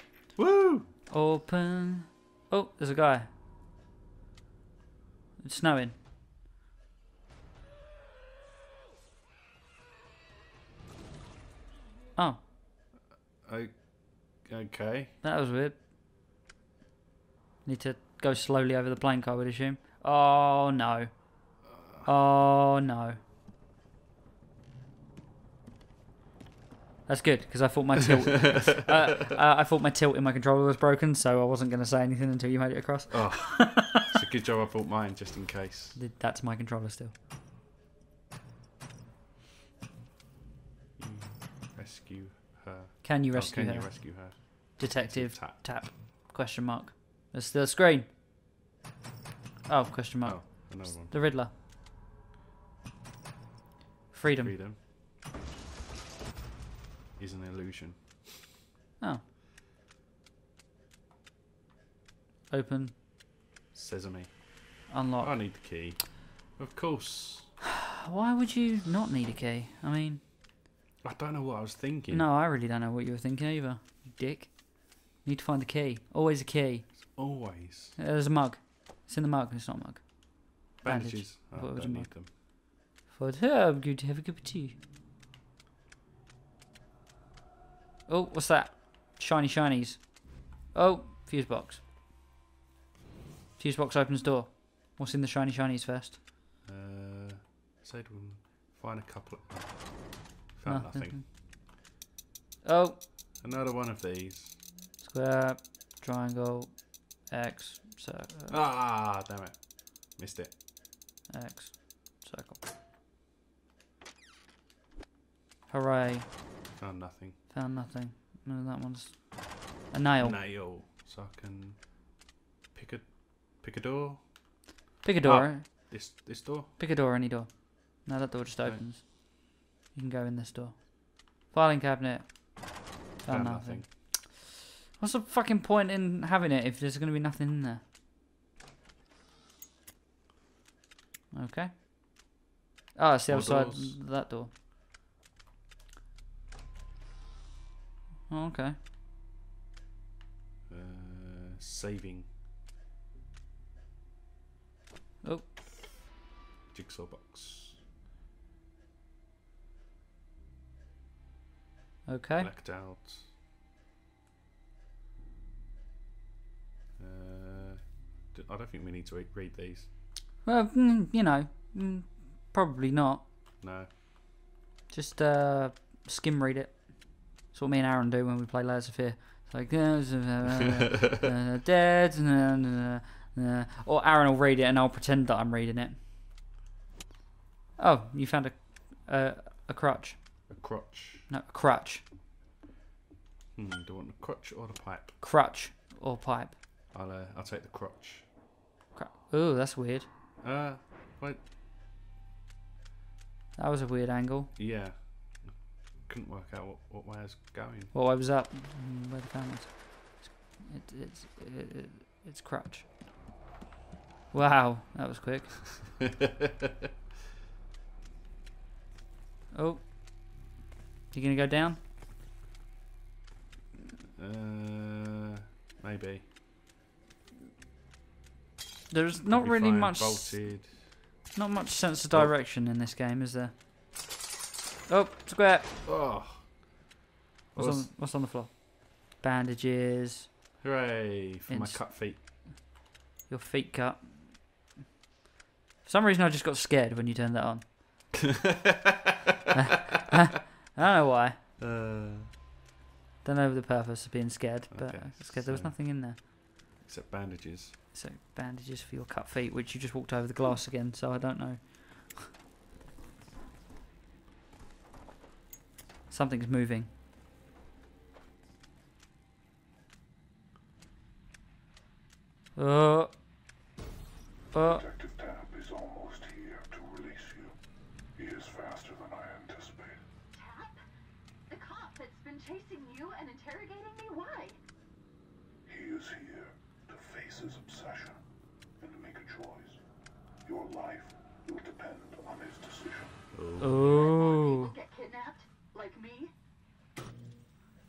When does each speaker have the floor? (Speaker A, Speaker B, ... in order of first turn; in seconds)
Speaker A: 0.4-0.9, 13.4-15.2, 21.6-22.1, 33.1-36.0, 41.0-45.6, 50.2-51.1, 54.3-54.8, 57.2-58.3, 63.7-64.4, 65.2-67.5, 71.0-72.3, 77.0-78.0, 80.8-82.3, 96.6-101.2, 103.4-104.6, 108.5-110.5, 116.8-117.4, 120.2-122.1, 122.7-124.3, 125.2-126.8, 133.2-133.9, 143.3-144.0, 150.7-152.3, 156.7-157.8, 162.4-163.3, 167.0-169.9, 173.6-173.9, 190.5-191.3, 193.6-195.2, 196.9-198.3, 200.4-201.4, 204.6-207.9, 224.2-226.3, 229.3-230.9, 235.8-236.6, 237.5-237.9, 240.6-242.2, 248.5-248.9, 251.6-252.3, 254.7-257.8, 293.3-293.8
Speaker B: 1.1-3.3, 5.4-6.0, 12.2-12.4, 15.2-15.8, 17.6-21.4, 22.0-23.2, 27.1-34.0, 35.9-37.1, 43.0-48.1, 49.7-51.5, 54.1-54.5, 62.5-63.0, 64.9-65.4, 68.0-70.2, 72.1-77.1, 78.0-82.2, 82.8-84.8, 88.1-91.8, 93.6-96.2, 100.6-101.2, 102.6-103.0, 105.0-108.5, 111.3-112.6, 115.7-116.3, 117.5-120.4, 125.0-126.2, 126.8-137.8, 141.3-141.7, 142.9-144.5, 148.3-148.7, 155.2-155.5, 162.1-162.5, 170.4-173.2, 174.9-185.9, 187.8-190.2, 191.3-192.0, 195.2-196.6, 198.9-200.1, 203.6-204.5, 207.9-212.9, 214.3-215.7, 219.5-219.8, 221.1-221.8, 228.9-230.4, 231.3-233.5, 234.9-235.7, 237.5-240.3, 241.5-241.8, 243.3-244.3, 245.8-247.8, 249.5-251.4, 253.2-256.2, 257.9-262.3, 266.1-266.9, 272.6-273.1, 274.5-274.9, 293.6-294.7
Speaker C: 274.9-277.5, 278.2-279.9, 285.7-288.2, 288.8-289.8, 290.4-293.1
Speaker D: 280.3-280.8, 281.5-284.6, 293.8-296.3